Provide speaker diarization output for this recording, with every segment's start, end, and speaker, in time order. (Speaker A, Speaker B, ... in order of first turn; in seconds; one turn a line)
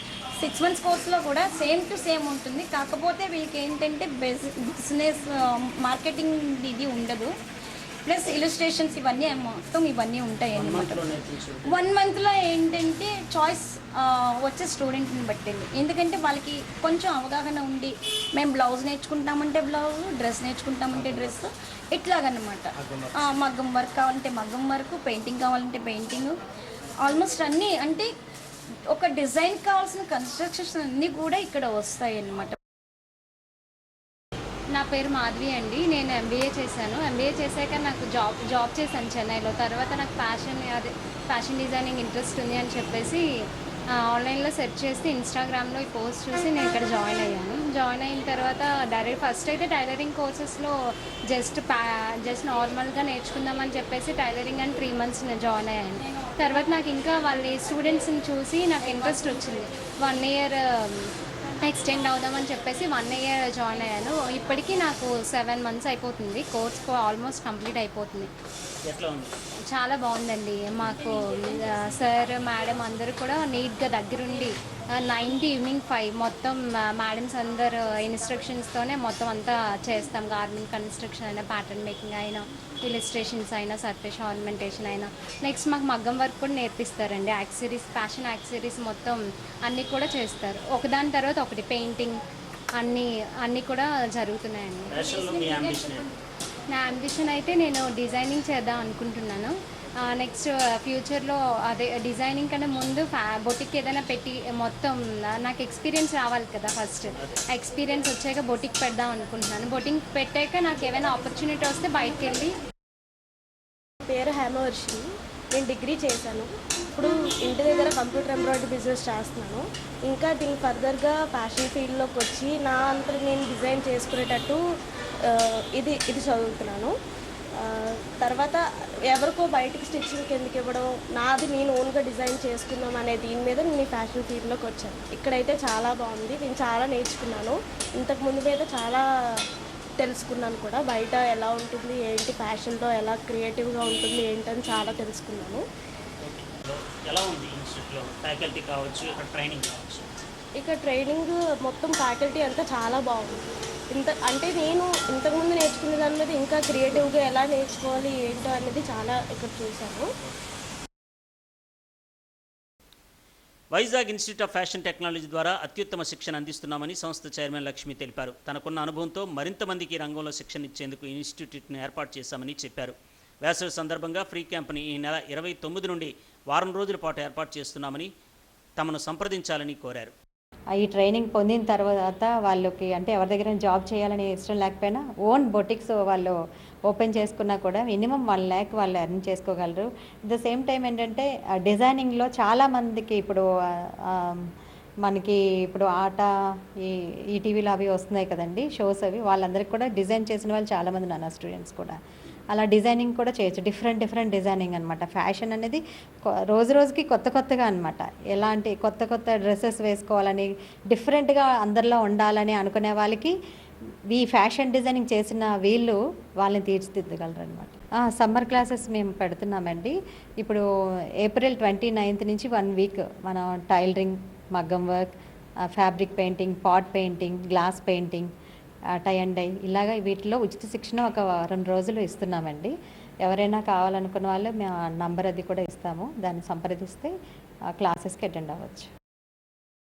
Speaker A: 0.4-7.3
Speaker A: 8.1-11.1
Speaker B: 10.5-11.8
Speaker A: 11.7-26.3
Speaker A: 27.0-28.1
Speaker A: 28.9-32.6
Speaker C: 34.7-43.2
Speaker C: 43.9-61.1
Speaker C: 61.6-68.3
Speaker B: 68.8-69.4
Speaker C: 69.7-92.2
Speaker C: 92.8-95.7
Speaker B: 94.9-96.1
Speaker C: 96.7-112.5
Speaker D: 114.1-124.6
Speaker D: 125.2-126.9
Speaker D: 127.6-139.5
Speaker D: 140.0-145.6
Speaker B: 146.2-150.1
Speaker D: 150.6-160.1
Speaker B: 163.7-178.1
Speaker B: 178.8-180.1
Speaker E: 180.8-186.3
Speaker E: 186.9-193.4
Speaker E: 194.1-194.5
Speaker E: 195.1-196.3
Speaker E: 196.8-202.0
Speaker E: 202.5-205.8
Speaker E: 206.5-213.3
Speaker E: 214.1-220.6
Speaker E: 221.2-225.1
Speaker E: 225.8-228.3
Speaker E: 229.0-232.7
Speaker E: 233.3-237.1
Speaker E: 237.8-238.9